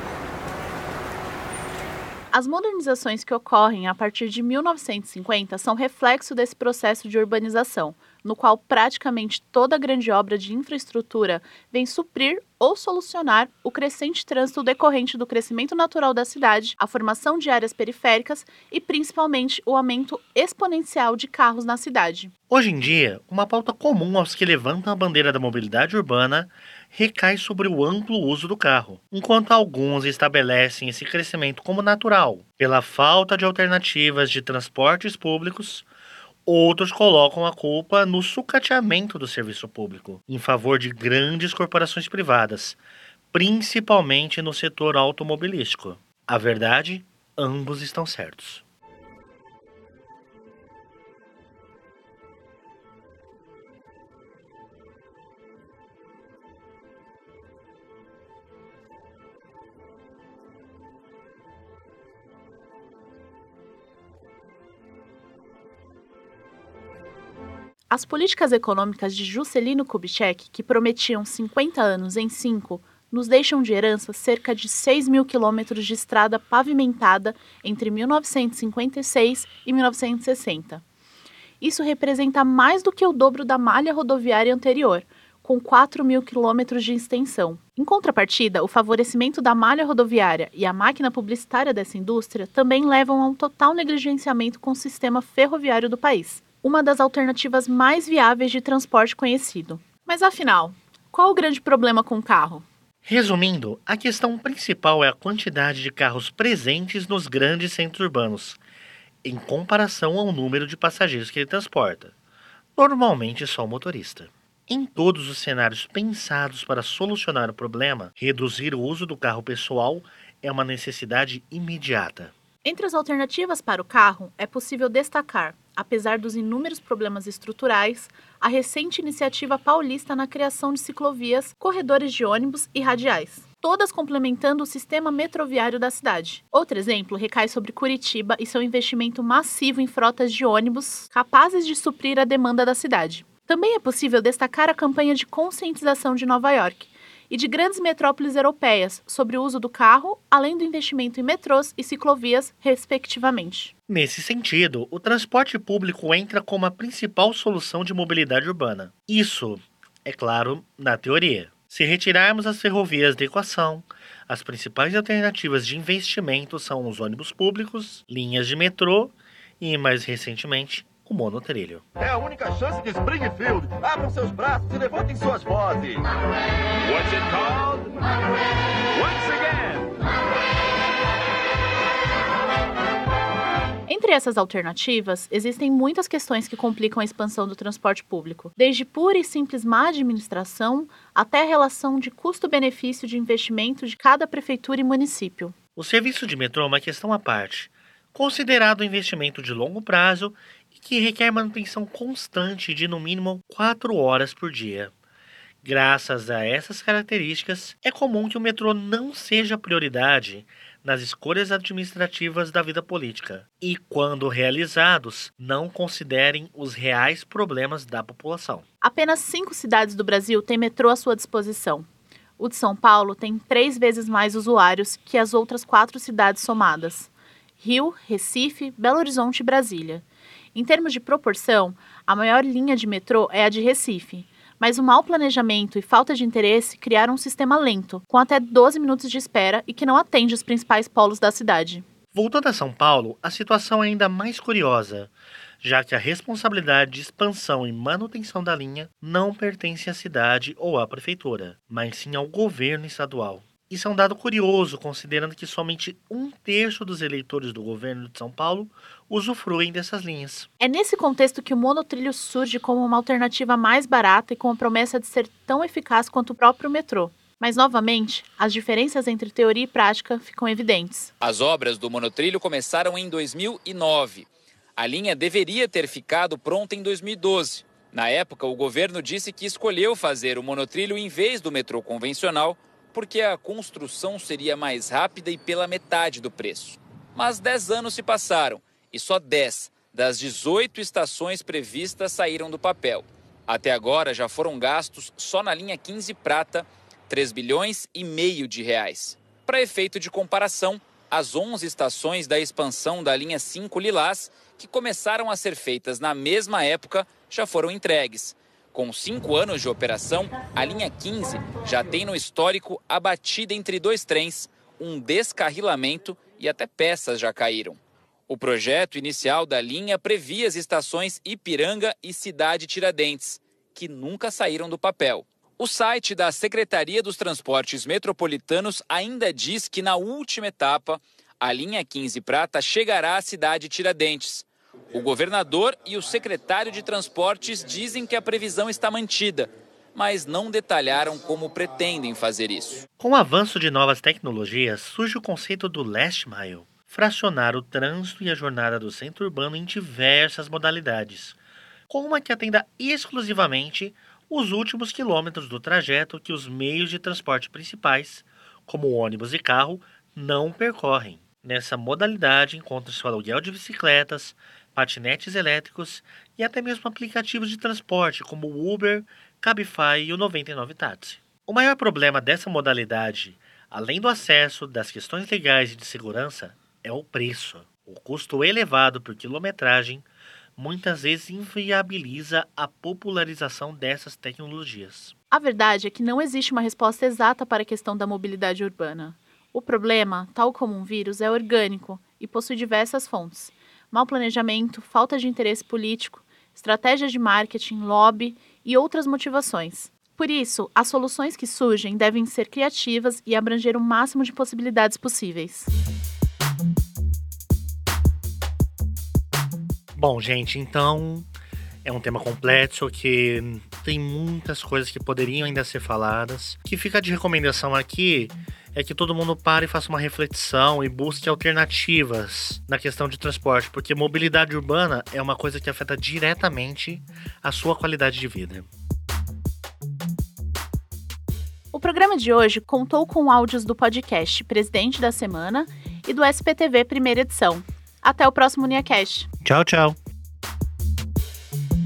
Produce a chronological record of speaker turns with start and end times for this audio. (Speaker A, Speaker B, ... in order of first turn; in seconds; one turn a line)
Speaker A: 2.3-22.3
Speaker B: 22.5-35.9
Speaker B: 36.5-42.8
Speaker B: 43.3-48.6
Speaker A: 67.9-80.8
Speaker A: 81.6-102.7
Speaker B: 103.0-108.6
Speaker B: 109.2-112.1
Speaker B: 112.8-122.3
Speaker A: 122.6-153.7
Speaker B: 153.9-171.8
Speaker C: 172.0-176.1
Speaker C: 176.8-178.0
Speaker C: 178.9-179.8
Speaker A: 183.9-195.5
Speaker B: 195.8-204.9
Speaker B: 205.6-218.6
Speaker A: 218.8-221.8
Speaker A: 222.4-241.8
Speaker B: 242.1-245.1
Speaker B: 245.6-260.5
Speaker A: 260.6-271.1
Speaker D: 271.2-342.8
Speaker B: 343.0-351.4
Speaker B: 351.9-385.1
Speaker A: 385.3-405.7
Speaker B: 409.9-411.3
Speaker B: 411.8-428.7
Speaker A: 431.7-439.3
Speaker B: 439.4-440.0